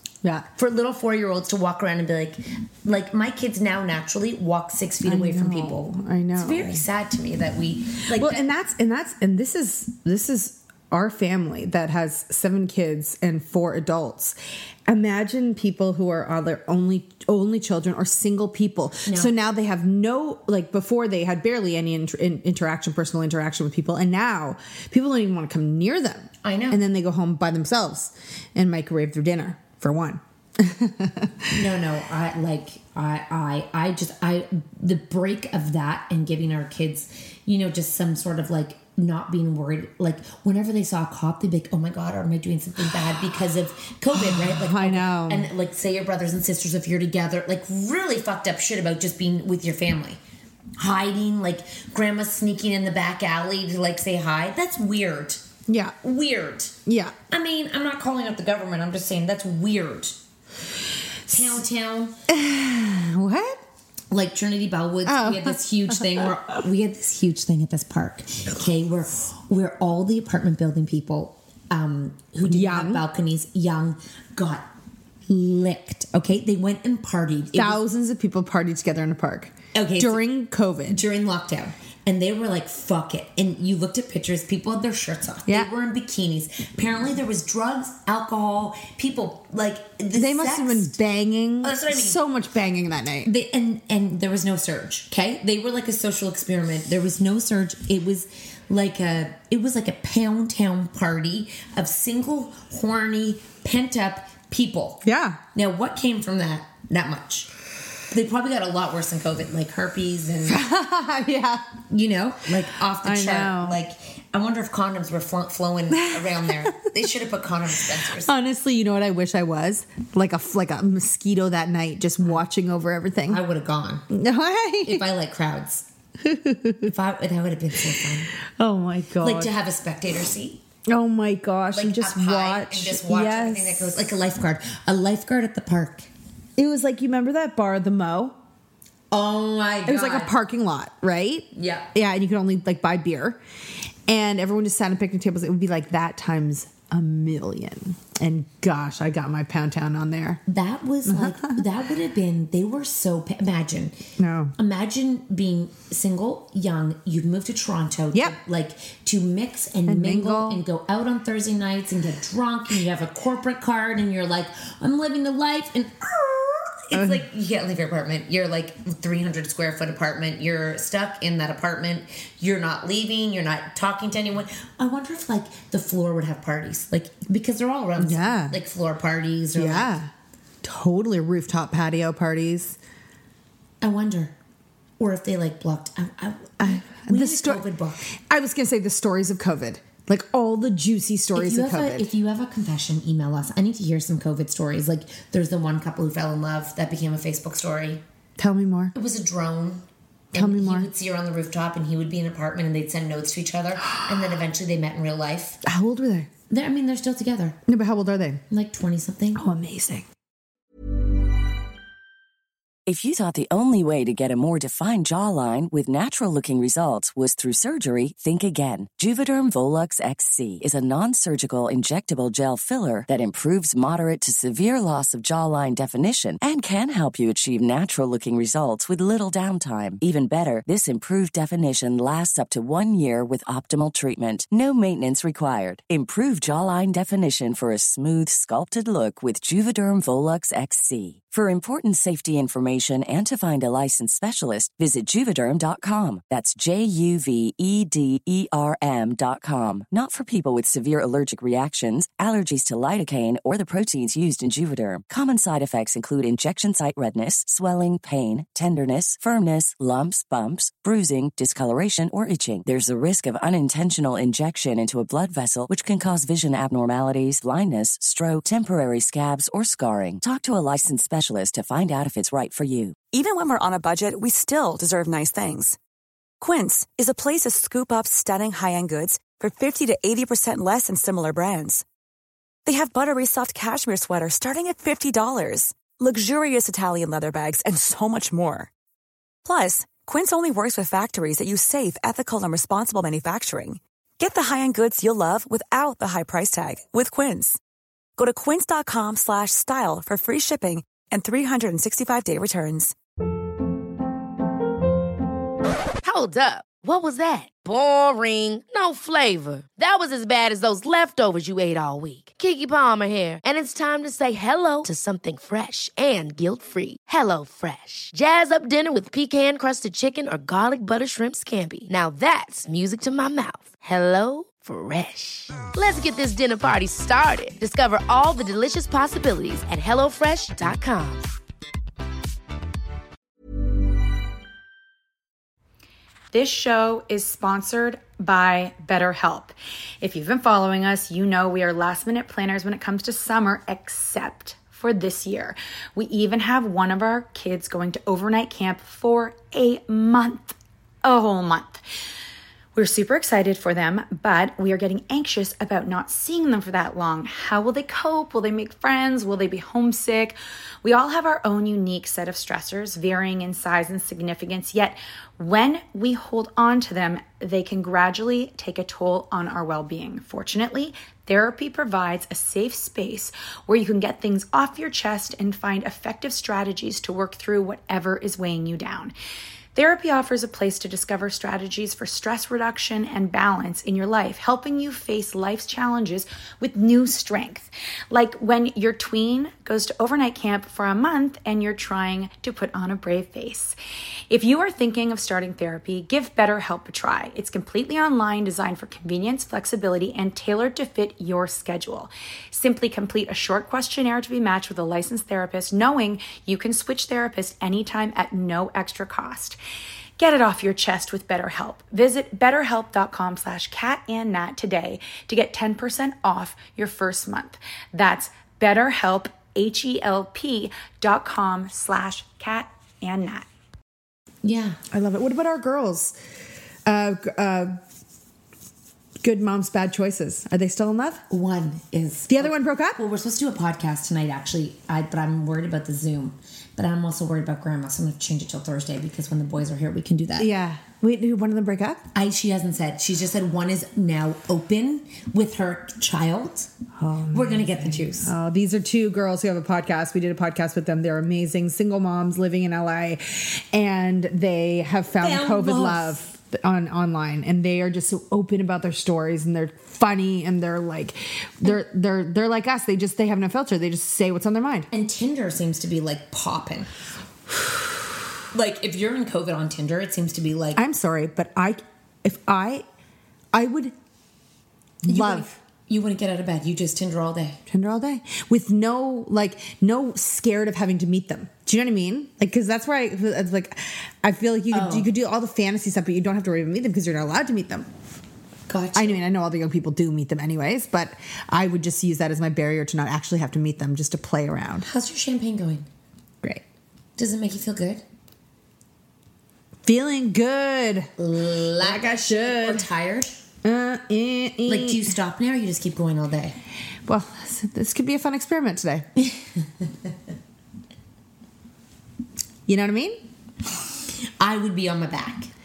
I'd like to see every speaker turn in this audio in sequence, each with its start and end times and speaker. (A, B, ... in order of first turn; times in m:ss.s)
0:00.5-0:08.4 A
0:05.0-0:06.8 B
0:08.1-0:14.4 B
0:14.9-0:31.6 B
0:19.0-0:19.3 A
0:26.4-0:26.8 A
0:31.5-0:50.2 A
0:44.1-0:45.5 B
0:50.8-0:55.4 A
0:55.7-0:56.0 B
0:56.0-0:56.8 A
0:56.8-0:57.1 B
0:57.3-1:00.2 A
1:01.3-1:02.2 A
1:02.3-1:03.6 B
1:04.1-1:14.7 A
1:05.0-1:06.3 B
1:12.4-1:13.0 B
1:15.3-1:17.8 A
1:17.5-1:21.0 B
1:19.7-1:20.2 A
1:20.9-1:31.0 A
1:30.1-1:33.3 B
1:31.6-1:32.2 A
1:33.2-1:45.0 A
1:45.0-1:45.4 B
1:45.5-1:47.5 A
1:48.1-1:50.6 A
1:50.4-1:51.7 B
1:51.9-1:58.3 A
1:52.9-1:53.8 B
1:55.9-1:56.7 B
1:58.2-2:03.4 B
2:03.3-2:04.0 A
2:04.1-2:05.0 B
2:04.8-2:05.8 A
2:06.2-2:06.9 B
2:06.8-2:08.3 A
2:08.6-2:09.5 B
2:09.2-2:10.6 A
2:10.9-2:14.0 B
2:11.7-2:16.1 A
2:16.6-2:18.4 B
2:19.1-2:20.3 A
2:19.8-2:23.4 B
2:21.5-2:21.9 A
2:24.1-2:30.4 B
2:30.5-2:34.0 A
2:31.0-2:31.6 B
2:34.2-2:34.5 B
2:34.6-2:59.9 A
2:39.9-2:40.6 B
2:46.9-2:47.2 B
2:58.0-2:58.6 B
2:59.5-3:00.1 B
3:00.6-3:02.8 B
3:03.8-3:04.3 A
3:05.0-3:08.0 A
3:06.6-3:07.6 B
3:08.3-3:12.1 B
3:11.3-3:18.0 A
3:18.4-3:18.9 B
3:18.9-3:25.6 A
3:20.3-3:20.9 B
3:25.6-3:26.3 B
3:26.5-3:27.6 A
3:27.7-3:28.4 B
3:28.5-3:29.4 A
3:29.3-3:30.0 B
3:32.8-4:33.0 C
4:33.1-4:35.8 D
4:36.4-4:41.8 D
4:42.6-4:48.7 D
4:49.4-4:57.6 D
4:58.2-5:02.9 D
5:06.0-5:31.3 E
5:36.3-5:51.8 F
5:52.7-6:19.1 F
6:19.7-6:33.8 F
6:34.3-6:49.6 F
6:50.2-7:03.4 F
7:04.4-7:04.8 A
7:04.9-7:06.2 B
7:06.8-7:07.8 B
7:09.2-7:11.2 B
7:11.3-7:20.5 A
7:12.3-7:13.0 B
7:20.4-7:22.0 B
7:22.1-7:26.7 A
7:27.0-7:44.9 B
7:27.3-7:28.3 A
7:35.2-7:36.2 A
7:44.9-7:46.9 A
7:48.5-7:50.8 A
7:50.7-7:52.8 B
7:53.5-7:53.9 B
7:55.0-7:55.6 B
7:55.0-7:57.6 A
7:57.7-8:07.9 B
8:04.7-8:05.1 A
8:08.7-8:09.2 A
8:08.9-8:14.8 B
8:14.8-8:15.9 A
8:17.2-8:18.0 A
8:19.8-8:21.1 B
8:21.2-8:23.3 A
8:21.8-8:22.9 B
8:23.6-8:25.1 B
8:24.7-8:26.6 A
8:27.1-8:29.1 B
8:32.7-8:33.2 B
8:34.4-8:35.5 A